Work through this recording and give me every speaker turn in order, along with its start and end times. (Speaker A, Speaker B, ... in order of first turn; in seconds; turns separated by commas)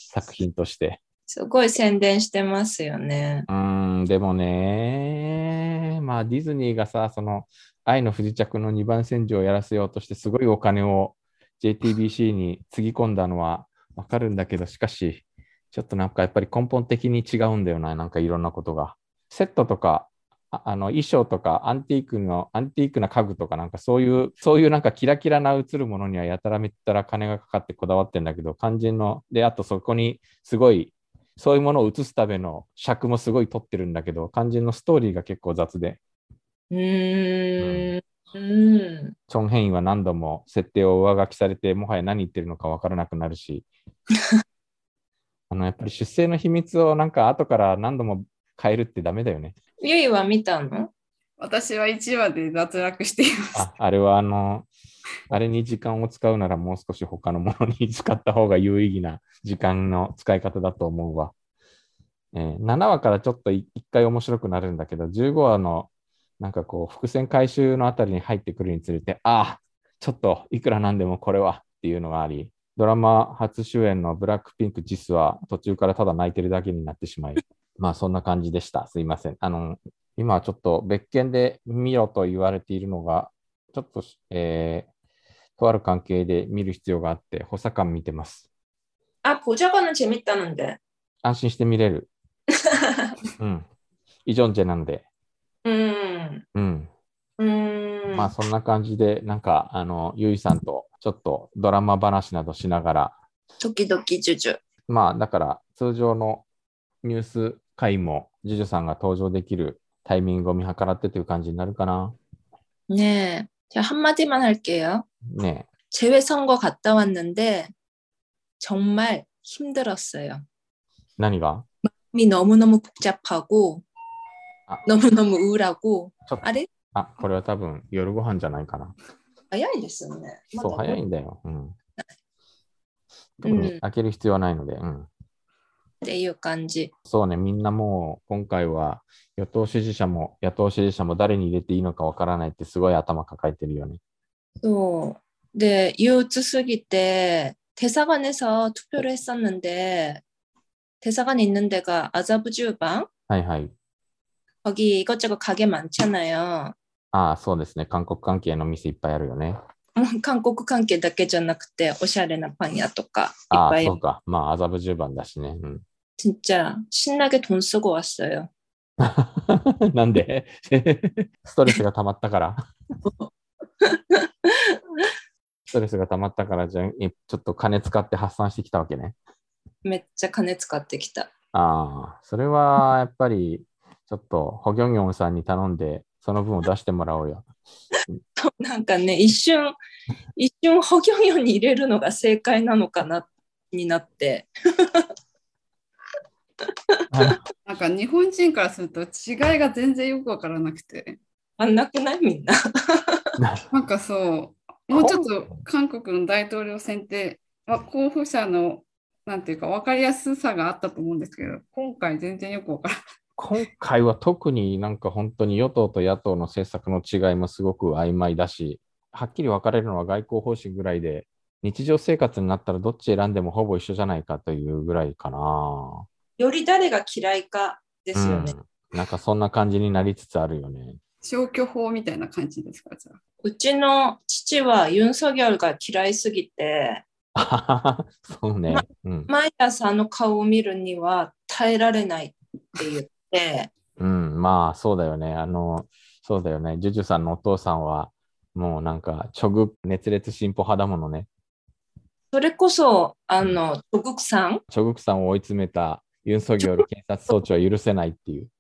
Speaker A: 0.1-1.0, Speaker B: 1.3-3.5, Speaker A: 3.5-36.0, Speaker B: 36.7-39.2, Speaker A: 37.6-37.9, Speaker A: 39.3-43.7, Speaker A: 45.5-49.5, Speaker B: 49.8-50.9, Speaker C: 51.4-53.7, Speaker A: 53.5-54.7, Speaker A: 55.3-61.3, Speaker A: 62.3-84.9, Speaker A: 85.6-88.5, Speaker B: 89.2-90.8, Speaker A: 91.2-92.1, Speaker B: 92.7-93.0, Speaker A: 93.4-93.7, Speaker A: 94.3-95.0, Speaker B: 95.7-96.5, Speaker A: 96.5-96.9, Speaker B: 97.4-98.3, Speaker A: 98.1-103.2, Speaker B: 103.6-104.6, Speaker A: 104.9-106.5, Speaker A: 107.0-112.2, Speaker B: 112.9-115.1, Speaker A: 115.3-115.7, Speaker B: 115.9-117.7, Speaker B: 118.6-120.4, Speaker A: 121.2-121.7, Speaker B: 121.8-123.8, Speaker B: 124.8-126.7, Speaker A: 126.3-128.9, Speaker B: 129.5-131.0, Speaker A: 130.5-131.8, Speaker B: 133.4-133.8, Speaker A: 133.4-135.1, Speaker B: 136.0-136.9, Speaker A: 137.1-144.0, Speaker B: 144.6-150.2, Speaker B: 151.0-153.1, Speaker A: 153.3-153.7, Speaker B: 154.6-156.8, Speaker A: 157.1-159.6, Speaker B: 160.0-164.0, Speaker A: 163.5-165.8, Speaker B: 166.2-168.5, Speaker A: 169.0-172.6, Speaker B: 173.1-173.3, Speaker B: 173.8-174.8, Speaker A: 175.7-179.2, Speaker B: 179.8-181.3, Speaker A: 181.5-187.5, Speaker B: 188.4-189.8, Speaker B: 190.4-195.1, Speaker B: 196.9-197.3, Speaker A: 197.1-197.4, Speaker C: 197.7-201.2, Speaker B: 201.6-203.3, Speaker A: 203.4-203.7, Speaker C: 203.7-213.0, Speaker A: 204.9-205.3, Speaker A: 213.4-226.1, Speaker B: 226.4-228.6, Speaker A: 228.2-231.0, Speaker C: 231.2-233.2, Speaker B: 233.4-237.1, Speaker A: 237.3-239.3, Speaker B: 238.7-243.7, Speaker A: 244.0-251.3, Speaker B: 252.3-254.6, Speaker A: 254.7-258.5